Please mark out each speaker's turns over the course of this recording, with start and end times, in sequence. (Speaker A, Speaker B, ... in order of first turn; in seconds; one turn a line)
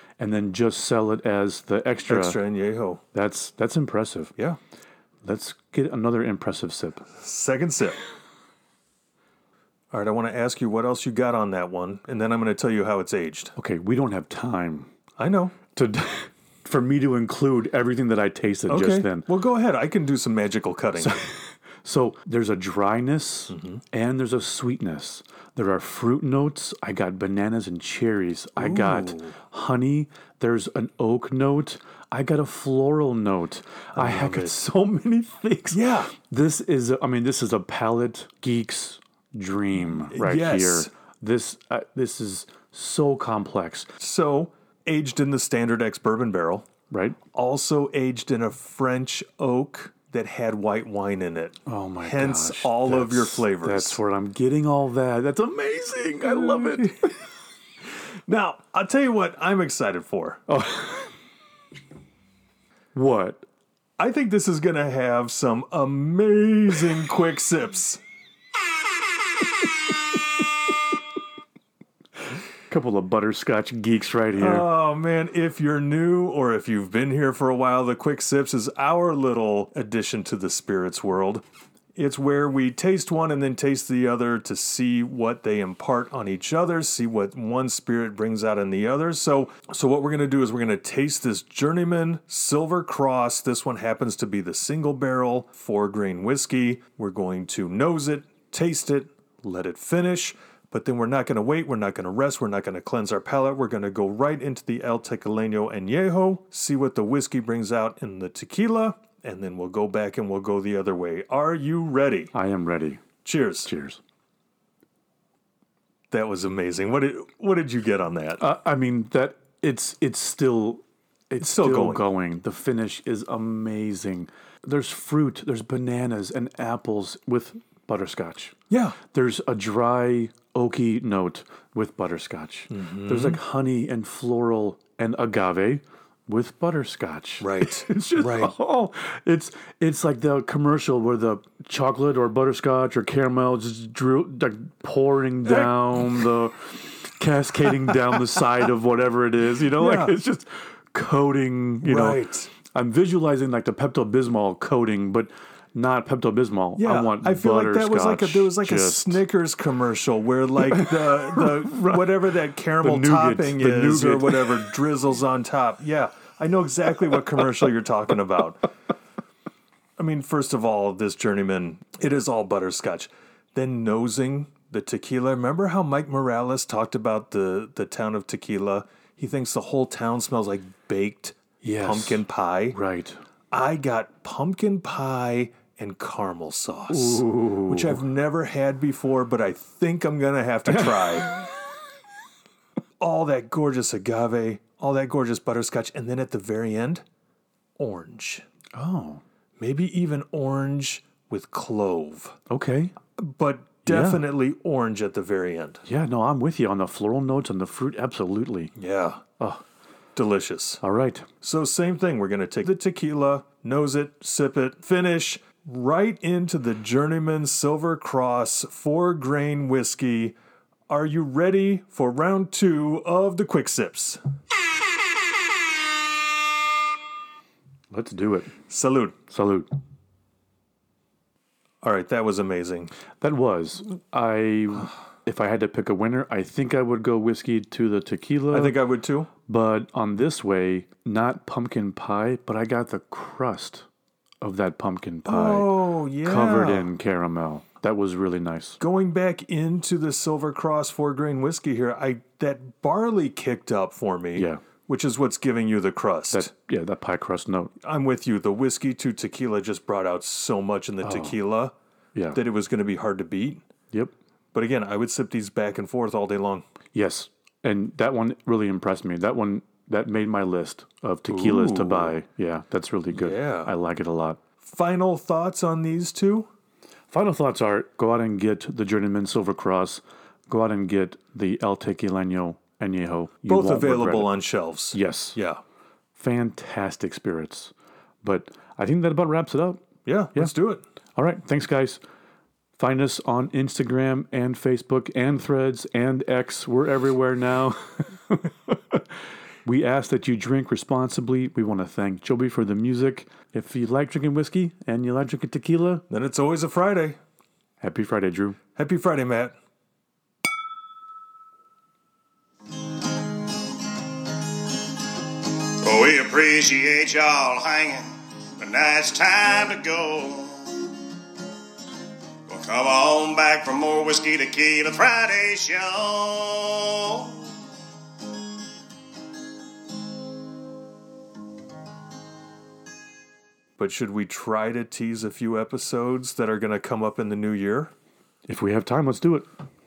Speaker A: 0.2-2.4
Speaker B: 2.1-3.0
Speaker A: 3.1-4.3
Speaker A: 5.2-7.1
Speaker B: 7.2-8.0
Speaker B: 9.9-13.5
Speaker A: 13.6-14.9
Speaker B: 15.2-15.6
Speaker A: 15.7-19.3
Speaker B: 18.7-21.2
Speaker A: 21.0-43.9
Speaker B: 23.5-23.8
Speaker B: 28.6-29.4
Speaker B: 33.9-34.5
Speaker B: 35.7-36.1
Speaker B: 40.1-40.9
Speaker B: 44.0-46.7
Speaker A: 46.9-47.2
Speaker B: 47.3-54.0
Speaker A: 51.6-57.2
Speaker B: 56.2-56.9
Speaker B: 58.3-60.4
Speaker A: 60.5-61.1
Speaker A: 62.9-63.5
Speaker B: 64.0-68.0
Speaker A: 72.7-74.7
Speaker B: 74.4-81.4
Speaker B: 81.9-112.3
Speaker A: 112.3-113.0
Speaker B: 113.2-113.7
Speaker A: 113.6-114.0
Speaker B: 116.1-118.4
Speaker A: 118.4-159.2
Speaker B: 121.4-122.0
Speaker B: 128.7-129.0
Speaker B: 132.7-133.4
Speaker B: 137.4-138.5
Speaker B: 149.8-150.2
Speaker B: 151.8-152.5
Speaker B: 156.8-168.7
Speaker A: 160.7-162.0
Speaker A: 162.8-164.8
Speaker B: 170.0-182.8
Speaker A: 181.6-183.2
Speaker B: 183.5-191.3
Speaker A: 186.9-188.0
Speaker A: 190.7-191.4
Speaker B: 193.0-197.0
Speaker B: 197.8-198.4
Speaker A: 198.8-199.2
Speaker B: 199.6-202.4
Speaker A: 202.5-202.9
Speaker B: 203.2-205.8
Speaker A: 203.9-204.2
Speaker A: 205.9-208.7
Speaker B: 208.8-209.2
Speaker B: 210.1-210.8
Speaker A: 210.8-211.3
Speaker B: 211.4-220.3
Speaker B: 220.9-224.2
Speaker A: 227.9-228.6
Speaker B: 228.7-229.2
Speaker A: 229.3-229.7
Speaker B: 231.8-232.9
Speaker A: 233.2-238.8
Speaker B: 238.5-239.3
Speaker A: 239.5-243.9
Speaker A: 244.4-248.8
Speaker B: 245.2-246.9
Speaker B: 248.8-256.5
Speaker A: 254.3-254.6
Speaker A: 256.3-257.7
Speaker B: 257.8-261.7
Speaker A: 261.0-261.4
Speaker A: 262.1-262.4
Speaker B: 262.3-263.6
Speaker B: 264.5-266.6
Speaker A: 266.9-274.4
Speaker B: 271.3-272.2
Speaker B: 273.1-273.7
Speaker B: 274.6-276.5
Speaker A: 277.1-284.3
Speaker B: 283.5-285.6
Speaker A: 284.9-285.4
Speaker A: 286.1-289.8
Speaker B: 290.1-290.8
Speaker A: 291.2-292.0
Speaker A: 292.8-299.1
Speaker A: 299.6-306.0
Speaker B: 306.1-307.2
Speaker A: 307.8-308.6
Speaker B: 308.8-309.5
Speaker C: 315.8-320.9
Speaker C: 322.5-327.5
Speaker B: 333.8-337.9
Speaker A: 338.5-339.5